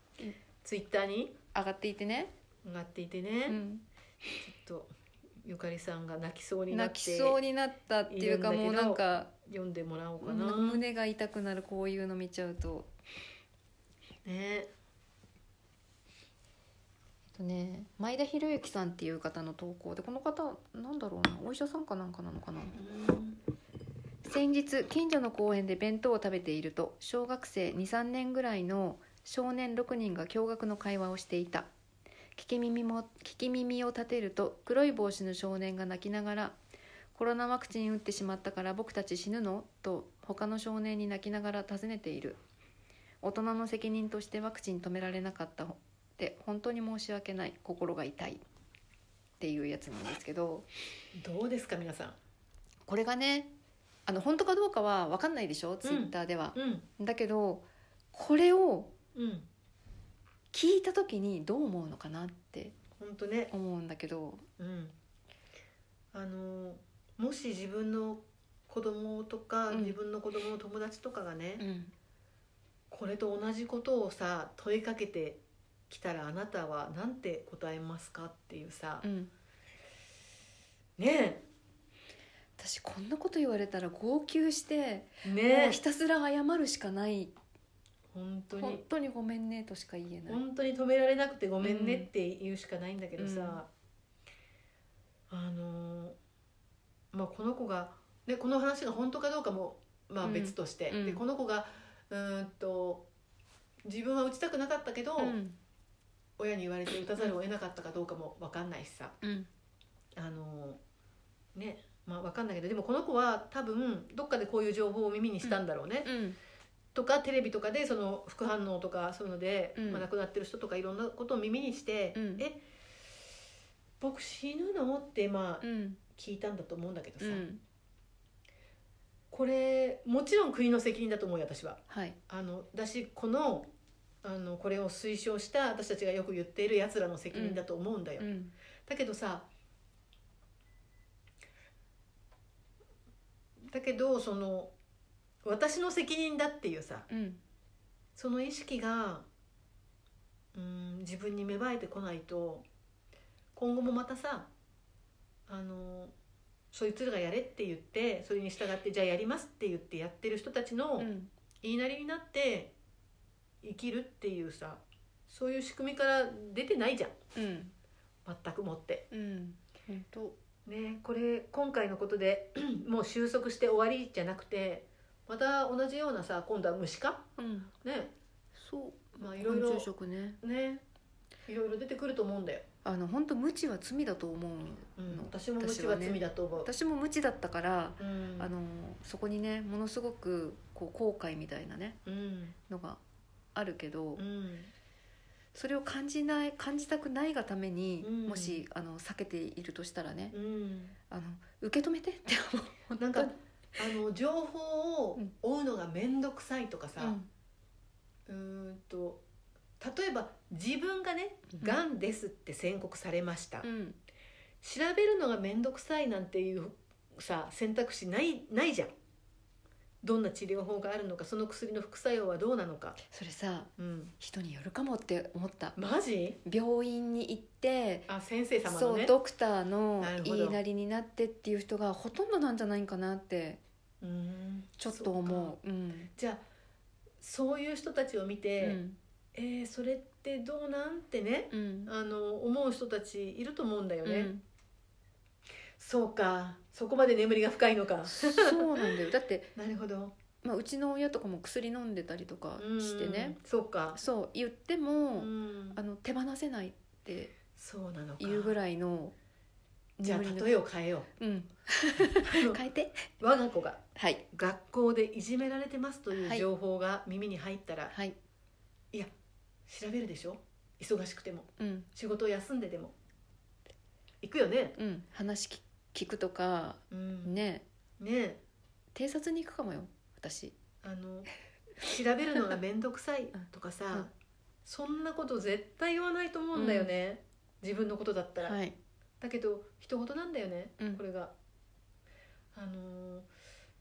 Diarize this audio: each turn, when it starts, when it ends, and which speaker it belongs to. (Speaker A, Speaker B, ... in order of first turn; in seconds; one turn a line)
Speaker A: 0.6-1.4
Speaker B: 1.5-2.3
Speaker A: 2.6-3.6
Speaker B: 3.5-3.9
Speaker A: 4.4-4.9
Speaker A: 5.4-7.4
Speaker B: 6.7-9.3
Speaker A: 8.1-10.8
Speaker B: 10.2-12.9
Speaker A: 14.2-14.7
Speaker B: 17.4-22.8
Speaker A: 22.8-23.4
Speaker B: 24.2-31.7
Speaker B: 32.4-36.6
Speaker B: 37.1-42.4
Speaker B: 43.2-48.4
Speaker B: 49.4-50.7
Speaker A: 51.2-52.2
Speaker B: 52.9-53.5
Speaker B: 54.1-58.9
Speaker A: 55.8-56.9
Speaker A: 59.1-59.5
Speaker B: 60.5-62.8
Speaker A: 63.0-63.5
Speaker B: 63.5-64.5
Speaker A: 64.6-64.9
Speaker A: 66.1-71.7
Speaker B: 69.7-70.0
Speaker B: 71.6-71.9
Speaker A: 72.9-79.1
Speaker B: 79.0-79.3
Speaker A: 81.0-81.4
Speaker B: 82.6-87.3
Speaker A: 85.2-85.8
Speaker A: 88.1-88.8
Speaker B: 88.5-90.4
Speaker A: 90.3-93.7
Speaker B: 91.6-92.1
Speaker B: 93.2-93.6
Speaker A: 95.3-96.2
Speaker A: 97.1-103.1
Speaker B: 100.2-101.2
Speaker A: 103.8-105.4
Speaker B: 105.2-105.6
Speaker A: 106.4-109.2
Speaker B: 109.2-109.5
Speaker A: 110.2-110.8
Speaker A: 111.5-116.1
Speaker B: 115.4-116.4
Speaker A: 116.9-122.6
Speaker B: 119.8-120.1
Speaker B: 122.2-122.4
Speaker A: 124.0-127.5
Speaker B: 125.6-126.0
Speaker B: 127.2-127.6
Speaker A: 129.3-133.7
Speaker B: 131.9-132.2
Speaker A: 134.2-138.3
Speaker B: 137.3-137.6
Speaker B: 138.2-138.5
Speaker A: 138.9-139.5
Speaker A: 143.7-144.7
Speaker A: 145.4-147.1
Speaker B: 147.1-147.4
Speaker A: 148.2-149.3
Speaker A: 150.5-152.7
Speaker A: 153.5-154.5
Speaker A: 155.5-156.1
Speaker A: 156.7-161.1
Speaker B: 161.0-161.3
Speaker A: 161.6-162.7
Speaker A: 163.6-167.2
Speaker B: 167.3-167.7
Speaker A: 168.3-169.1
Speaker B: 169.1-170.4
Speaker A: 170.7-177.3
Speaker B: 177.4-177.7
Speaker A: 177.8-178.1
Speaker B: 178.6-180.4
Speaker A: 179.2-179.9
Speaker A: 180.4-180.8
Speaker A: 181.5-182.7
Speaker B: 182.8-192.0
Speaker A: 185.0-186.7
Speaker A: 188.0-188.5
Speaker A: 192.1-192.6
Speaker B: 192.7-193.0
Speaker B: 193.6-194.2
Speaker A: 194.2-194.7
Speaker B: 195.5-200.4
Speaker A: 198.0-198.6
Speaker A: 200.3-200.9
Speaker B: 201.1-203.3
Speaker A: 203.0-207.2
Speaker B: 207.0-207.3
Speaker A: 208.3-209.2
Speaker A: 209.8-213.7
Speaker B: 213.6-214.0
Speaker A: 214.6-218.9
Speaker A: 220.0-223.0
Speaker B: 223.1-225.8
Speaker A: 223.8-224.1
Speaker A: 225.8-226.4
Speaker B: 226.4-228.1
Speaker A: 228.1-229.1
Speaker B: 228.7-233.6
Speaker A: 230.0-230.6
Speaker A: 234.0-235.6
Speaker B: 234.8-236.1
Speaker A: 236.2-236.4
Speaker A: 237.2-238.8
Speaker B: 238.6-239.0
Speaker A: 239.3-244.3
Speaker B: 241.5-241.9
Speaker B: 244.1-244.4
Speaker A: 245.8-248.9
Speaker B: 248.1-249.5
Speaker A: 249.6-250.2
Speaker B: 250.4-253.4
Speaker A: 252.6-254.0
Speaker B: 253.9-257.3
Speaker A: 255.2-255.8
Speaker A: 257.6-258.6
Speaker B: 258.2-259.1
Speaker B: 260.0-260.5
Speaker A: 260.0-261.1
Speaker B: 261.2-263.0
Speaker A: 262.2-262.6
Speaker A: 263.2-263.8
Speaker B: 264.0-264.2
Speaker A: 264.3-267.9
Speaker B: 266.1-266.5
Speaker B: 267.9-268.2
Speaker A: 269.7-272.9
Speaker B: 271.6-271.9
Speaker A: 274.2-274.8
Speaker B: 274.8-277.6
Speaker A: 276.9-277.3
Speaker A: 278.0-278.4
Speaker B: 278.9-280.6
Speaker A: 280.8-284.1
Speaker A: 284.6-288.6
Speaker B: 286.6-286.9
Speaker B: 288.4-288.8
Speaker A: 289.2-291.3
Speaker A: 292.5-293.3